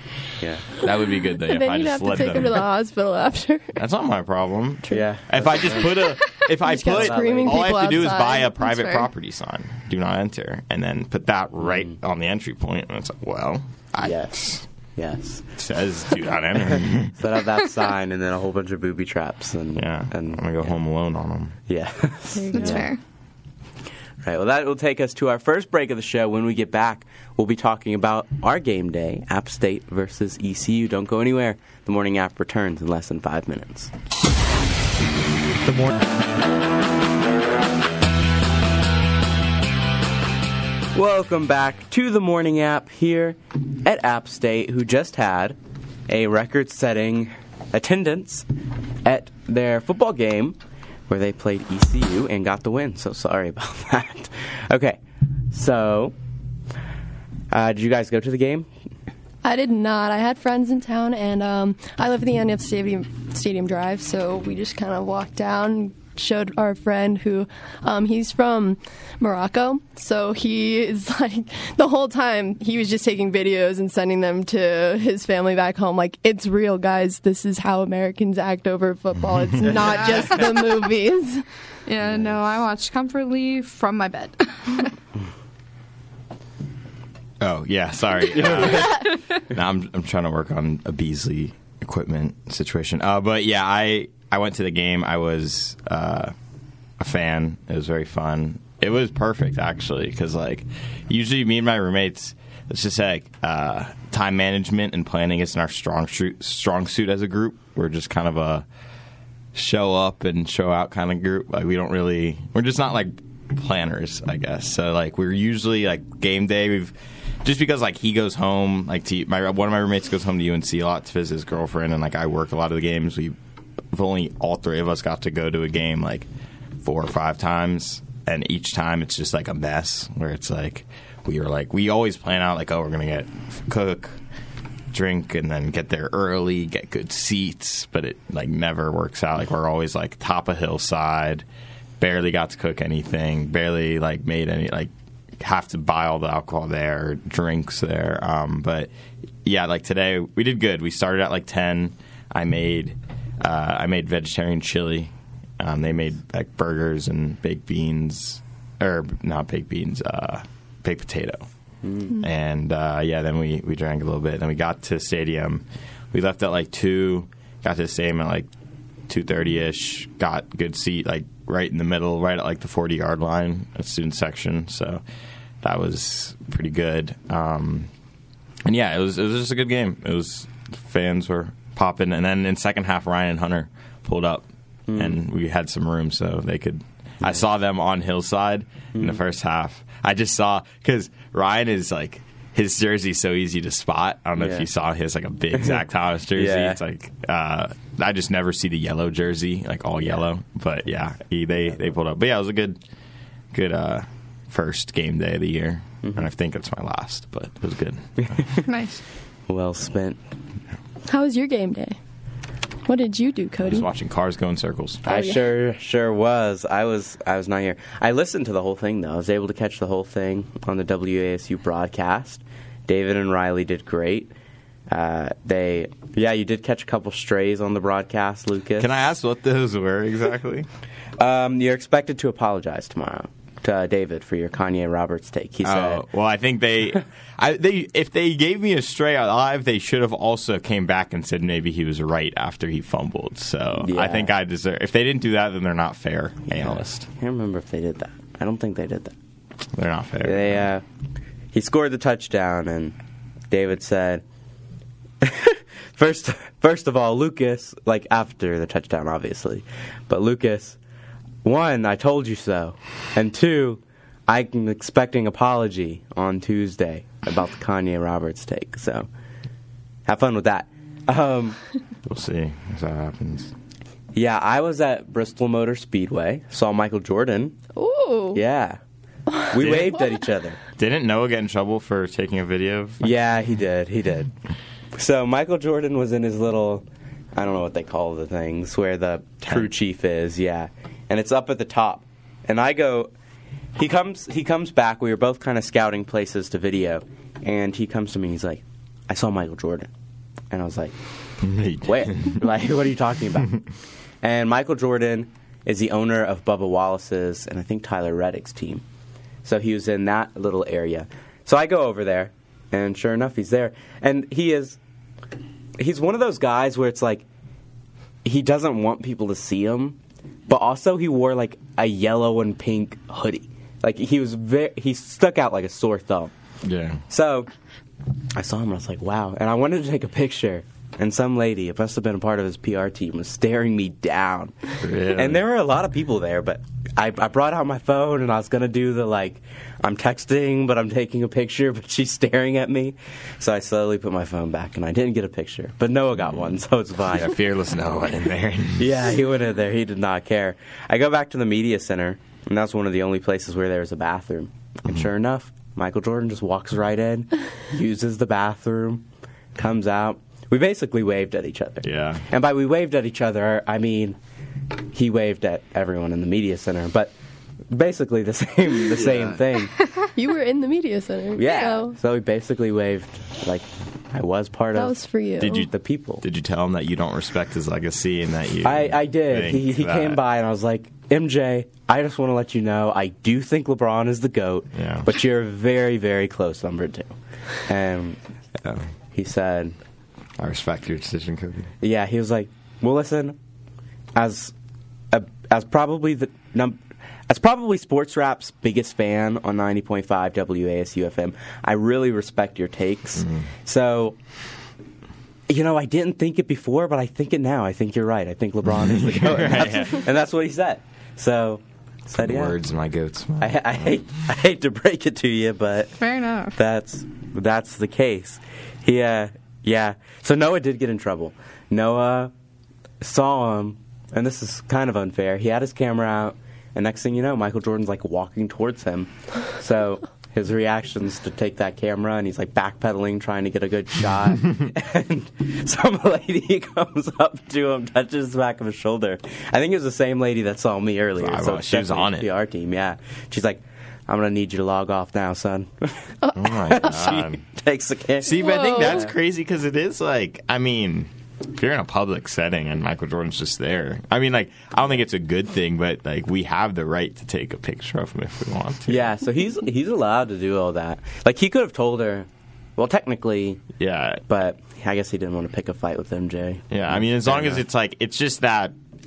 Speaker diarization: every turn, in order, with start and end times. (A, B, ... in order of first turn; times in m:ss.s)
0:00.4-0:00.7 A
0:00.8-0:02.7 B
0:01.4-0:03.7 C
0:03.7-0:14.6 B
0:04.9-0:05.9 A
0:06.6-0:08.6 C
0:06.9-0:07.9 A
0:08.7-0:09.1 D
0:11.6-0:11.9 A
0:14.0-0:15.4 A
0:15.6-0:17.2 B
0:16.8-0:20.8 A
0:19.7-0:21.5 B
0:21.7-0:22.9 A
0:22.4-0:22.9 C
0:22.5-0:23.0 D
0:24.2-0:33.9 A
0:35.6-0:36.0 B
0:40.9-0:48.4 A
0:49.0-0:50.6 A
0:51.1-0:55.0 A
0:55.5-0:56.1 A
0:57.5-0:58.7 A
0:59.4-1:21.4 C
1:19.9-1:20.4 D
1:21.8-1:24.9 D
1:22.0-1:22.3 A
1:27.4-1:36.3 B
1:28.3-1:28.9 A
1:28.8-1:29.1 D
1:37.0-1:48.7 B
1:49.5-2:03.3 B
2:03.9-2:06.3 B
2:06.8-2:14.2 B
2:14.9-2:21.4 B
2:22.0-2:28.9 B
2:29.4-2:41.4 B
2:41.8-2:42.2 A
2:42.2-2:48.5 B
2:49.1-2:55.0 B
2:55.6-2:57.9 B
2:58.6-3:22.8 B
3:04.9-3:05.2 A
3:08.9-3:09.2 A
3:14.4-3:14.7 A
3:16.3-3:16.8 A
3:23.5-3:28.5 B
3:28.2-3:28.6 A
3:28.6-3:29.0 D
3:29.5-3:30.2 A
3:31.1-3:32.0 C
3:32.9-3:33.9 C
3:33.6-3:35.0 B
3:35.0-3:35.5 C
3:35.0-3:44.3 A
3:44.9-3:48.9 A
3:48.8-3:50.7 B
3:51.2-3:56.0 A
3:55.6-4:07.0 B
4:03.8-4:04.3 A
4:06.5-4:09.1 A
4:09.7-4:10.7 B
4:10.2-4:10.8 A
4:11.5-4:13.0 A
4:13.5-4:14.2 A
4:15.2-4:20.8 A
4:21.4-4:29.1 A
4:30.0-4:31.6 A
4:32.0-4:33.5 B
4:34.1-4:37.6 A
4:37.8-4:38.4 C
4:38.3-4:38.8 A
4:39.4-4:40.6 A
4:39.5-4:40.0 B
4:40.8-4:43.2 B
4:43.0-4:44.3 A
4:44.9-4:53.1 A
4:49.4-4:49.7 B
4:53.8-4:59.9 A
5:00.5-5:01.0 A
5:01.4-5:02.5 B
5:01.8-5:03.6 A
5:04.2-5:08.8 A
5:09.4-5:14.8 A
5:15.8-5:17.2 A
5:18.2-5:26.3 A
5:26.6-5:27.0 B
5:27.1-5:27.5 A
5:28.3-5:47.3 A
5:34.8-5:35.4 B
5:47.1-5:49.0 B
5:48.8-5:59.0 A
5:59.6-6:04.2 A
6:01.8-6:02.2 B
6:04.9-6:07.1 A
6:07.7-6:09.7 A
6:09.0-6:09.4 B
6:10.1-6:11.9 C
6:11.4-6:15.0 A
6:14.7-6:15.7 C
6:15.4-6:20.2 B
6:15.7-6:16.2 A
6:18.6-6:27.1 A
6:24.7-6:25.1 B
6:27.6-6:28.2 A
6:29.1-6:29.8 A
6:30.4-6:31.7 B
6:31.8-6:33.4 A
6:34.2-6:34.5 A
6:35.1-6:44.2 A
6:43.2-6:43.5 B
6:45.5-6:52.6 A
6:48.8-6:50.0 B
6:52.2-6:53.9 B
6:53.4-6:56.0 A
6:56.0-6:56.5 D
6:56.5-7:02.3 A
7:03.0-7:28.4 A
7:21.2-7:22.3 B
7:26.3-7:27.0 C
7:26.3-7:27.4 B
7:28.2-7:39.1 B
7:28.3-7:29.1 C
7:38.9-7:43.6 A
7:43.8-7:44.2 B
7:44.3-7:47.6 A
7:46.7-7:48.7 B